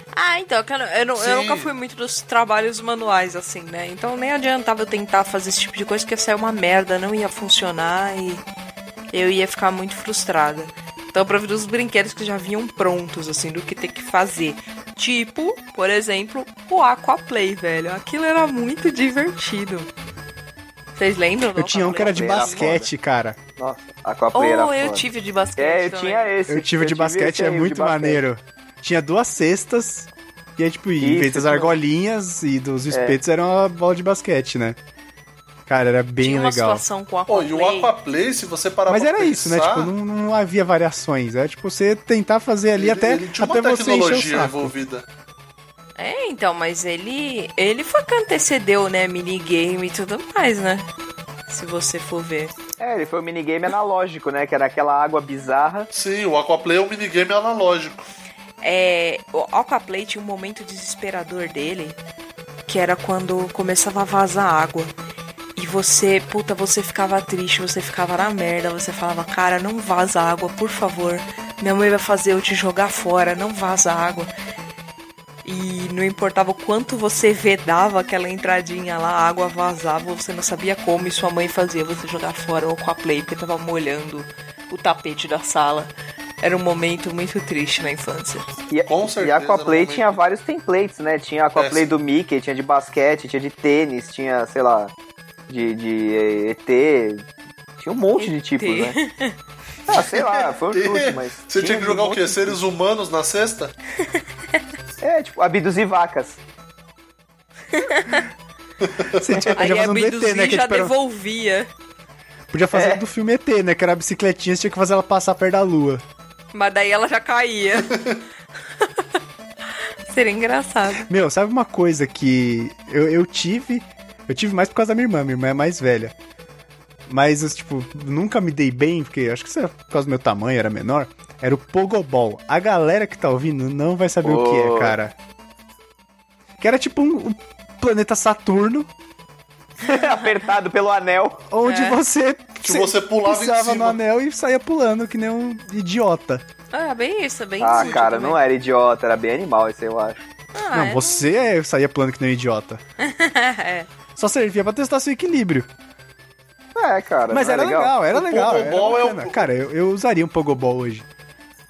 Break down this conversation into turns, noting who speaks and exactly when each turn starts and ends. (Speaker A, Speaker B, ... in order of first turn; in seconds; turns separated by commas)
Speaker A: 0.1-8.4, Speaker B: 1.1-1.7, Speaker A: 9.1-19.9, Speaker A: 20.9-22.7, Speaker C: 21.5-23.4, Speaker D: 21.9-22.9, Speaker D: 23.6-28.2, Speaker A: 24.3-26.3, Speaker C: 26.5-34.8, Speaker D: 31.0-31.7, Speaker D: 32.9-33.2, Speaker C: 35.7-36.8, Speaker A: 36.2-37.9, Speaker B: 37.3-39.9, Speaker C: 38.9-44.7, Speaker B: 42.8-45.0, Speaker A: 46.0-50.9, Speaker A: 51.5-52.5, Speaker D: 52.8-55.9, Speaker B: 55.9-58.0, Speaker A: 58.6-62.0, Speaker A: 62.7-64.9, Speaker A: 65.5-74.3, Speaker A: 75.4-88.5, Speaker D: 88.7-94.9, Speaker B: 88.9-90.2, Speaker B: 91.5-91.9, Speaker D: 95.5-97.2, Speaker D: 97.8-99.0, Speaker A: 98.2-99.3, Speaker D: 99.9-102.6, Speaker B: 99.9-103.7, Speaker D: 105.0-106.4, Speaker A: 107.7-108.3, Speaker B: 108.8-109.5, Speaker C: 109.2-110.9, Speaker A: 109.6-111.7, Speaker C: 112.5-116.0, Speaker D: 112.7-113.0, Speaker A: 116.5-118.0, Speaker A: 120.1-121.1, Speaker C: 121.1-126.1, Speaker C: 127.1-135.1, Speaker D: 134.2-134.9, Speaker C: 136.6-138.9, Speaker D: 139.8-141.4, Speaker C: 141.5-146.4, Speaker A: 141.6-142.0, Speaker B: 142.6-144.0, Speaker A: 146.7-148.4, Speaker D: 147.6-150.2, Speaker A: 150.5-151.3, Speaker C: 150.7-152.8, Speaker A: 153.0-153.9, Speaker C: 154.2-155.7, Speaker D: 156.7-157.9, Speaker C: 157.3-161.1, Speaker B: 158.1-159.5